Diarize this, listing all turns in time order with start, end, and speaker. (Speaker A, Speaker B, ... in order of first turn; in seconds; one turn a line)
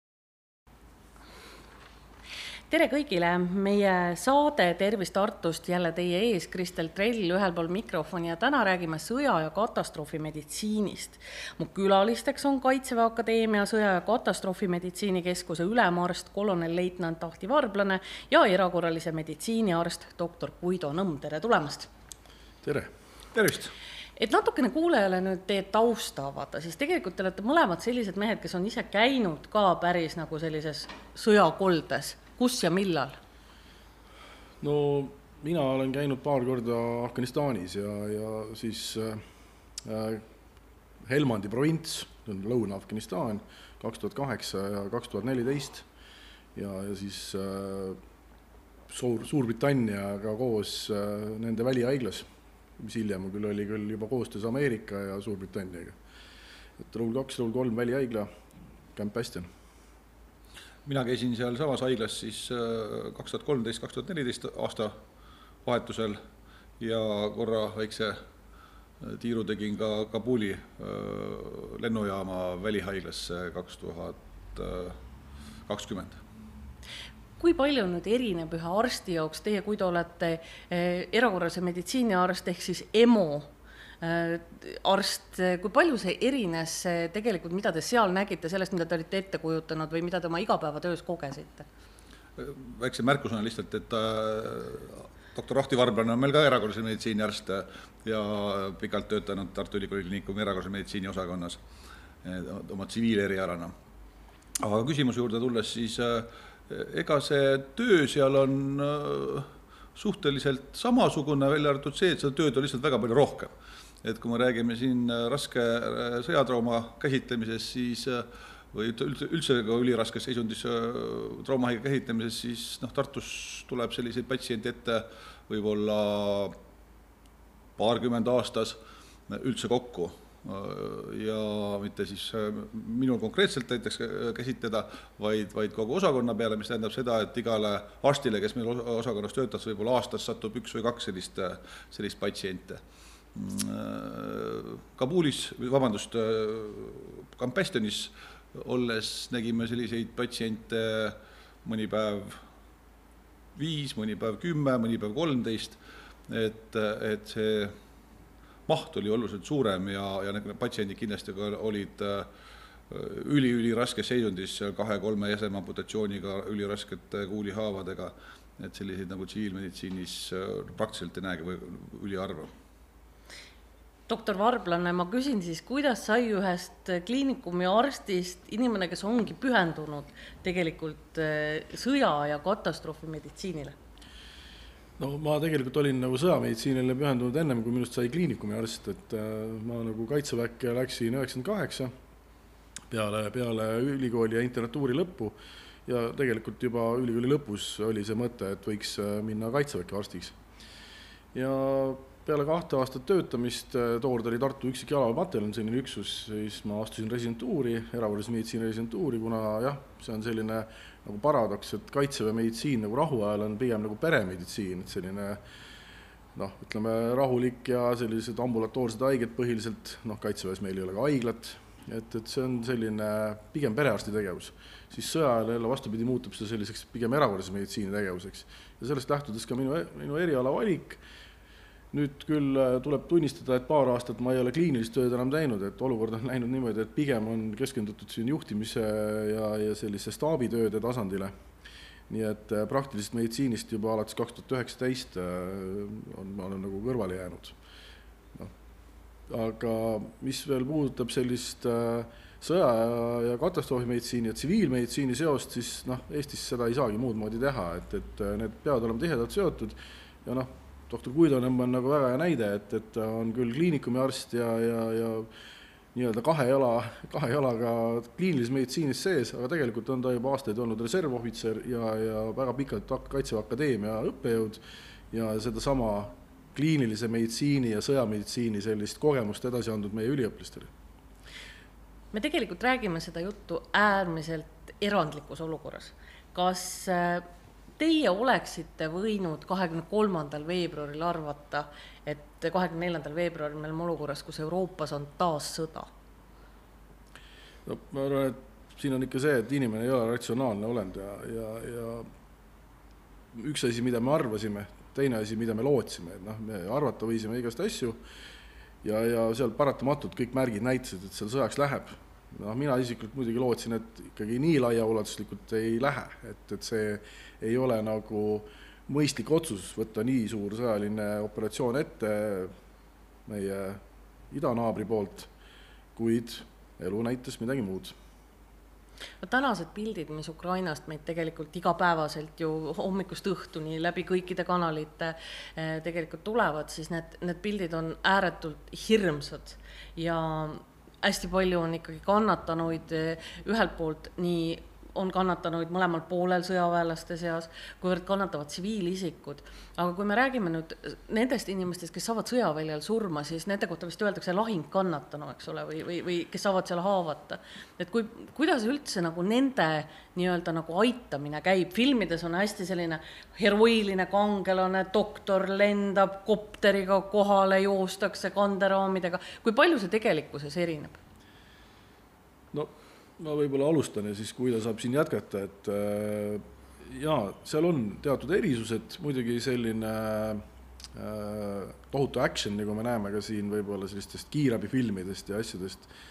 Speaker A: 2.7-21.9
Speaker B: 22.6-22.9
Speaker C: 23.4-23.7
Speaker A: 24.2-33.2
Speaker B: 34.6-39.2
Speaker B: 39.8-40.2
Speaker B: 41.0-45.9
Speaker B: 46.5-48.0
Speaker B: 48.9-52.3
Speaker B: 52.8-56.0
Speaker B: 56.8-58.3
Speaker B: 59.0-59.5
Speaker C: 60.9-65.0
Speaker C: 65.7-66.2
Speaker C: 66.8-68.2
Speaker C: 69.0-75.0
Speaker C: 75.7-76.2
Speaker A: 77.4-91.7
Speaker C: 92.4-101.6
Speaker C: 102.2-103.7
Speaker C: 104.6-113.5
Speaker C: 114.0-126.6
Speaker C: 127.8-142.8
Speaker C: 143.3-152.4
Speaker C: 153.6-157.8
Speaker C: 158.7-162.3
Speaker C: 162.9-172.5
Speaker A: 174.1-183.8
Speaker B: 185.0-191.9
Speaker B: 192.9-200.4
Speaker B: 201.3-215.4
Speaker B: 216.3-231.0
Speaker B: 231.9-241.3
Speaker B: 242.1-247.6
Speaker B: 249.3-265.3
Speaker B: 265.9-280.7
Speaker A: 282.1-287.3
Speaker A: 287.8-295.9
Speaker B: 297.6-302.1
Speaker B: 303.3-308.0
Speaker B: 308.8-322.5
Speaker B: 323.3-325.3
Speaker B: 325.9-327.9
Speaker A: 329.2-371.0
Speaker B: 372.5-380.4
Speaker B: 380.9-385.9